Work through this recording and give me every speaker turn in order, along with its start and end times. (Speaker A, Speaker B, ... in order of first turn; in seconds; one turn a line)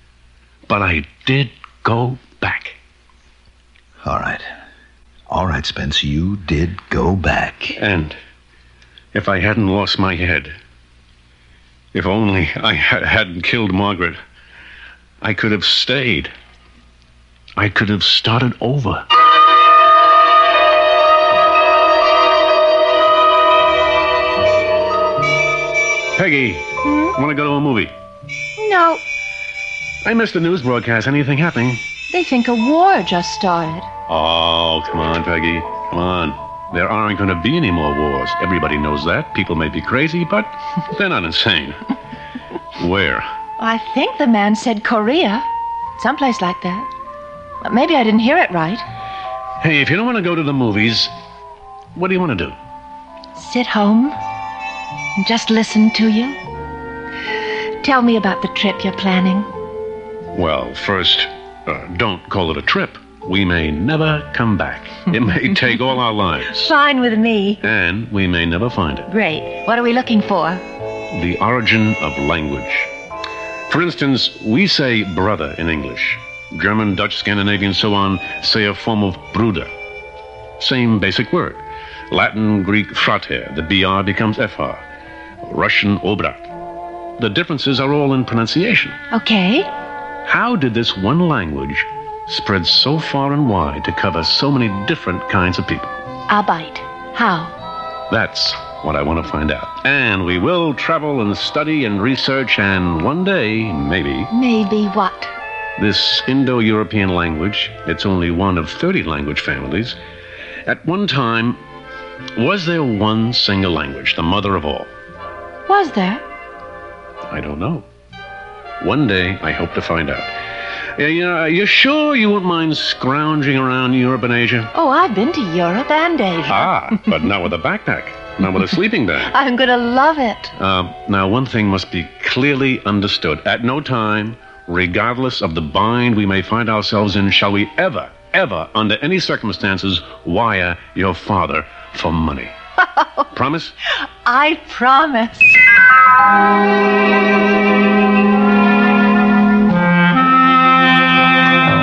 Speaker A: 0.7-2.8
Speaker B: 4.0-4.5
Speaker B: 5.3-7.8
Speaker A: 7.8-8.2
Speaker A: 9.1-10.6
Speaker A: 11.9-14.2
Speaker A: 15.2-16.3
Speaker A: 17.6-19.0
Speaker A: 26.2-27.9
Speaker C: 26.8-27.1
Speaker C: 28.6-29.0
Speaker A: 30.0-31.8
Speaker C: 32.1-33.9
Speaker A: 34.1-41.8
Speaker A: 42.8-43.3
Speaker C: 43.6-45.5
Speaker C: 46.0-46.9
Speaker C: 47.6-48.9
Speaker A: 49.6-51.1
Speaker A: 52.0-52.6
Speaker C: 53.4-54.2
Speaker C: 55.2-56.4
Speaker C: 57.8-59.5
Speaker A: 60.3-66.7
Speaker C: 66.6-67.6
Speaker A: 67.6-69.1
Speaker C: 69.1-70.6
Speaker A: 71.1-72.9
Speaker A: 73.7-79.7
Speaker A: 80.6-84.8
Speaker A: 85.4-86.5
Speaker A: 87.2-89.0
Speaker C: 89.1-89.7
Speaker A: 90.3-95.9
Speaker C: 96.3-97.5
Speaker A: 98.1-104.3
Speaker C: 104.3-105.3
Speaker A: 105.8-110.0
Speaker A: 110.7-111.6
Speaker A: 112.4-114.9
Speaker C: 115.7-116.2
Speaker A: 117.3-117.8
Speaker A: 118.8-120.3
Speaker A: 121.0-124.7
Speaker C: 124.7-127.0
Speaker A: 126.5-129.3
Speaker C: 129.3-130.5
Speaker A: 130.6-142.6
Speaker C: 142.9-143.3
Speaker A: 143.3-143.8
Speaker C: 144.2-145.6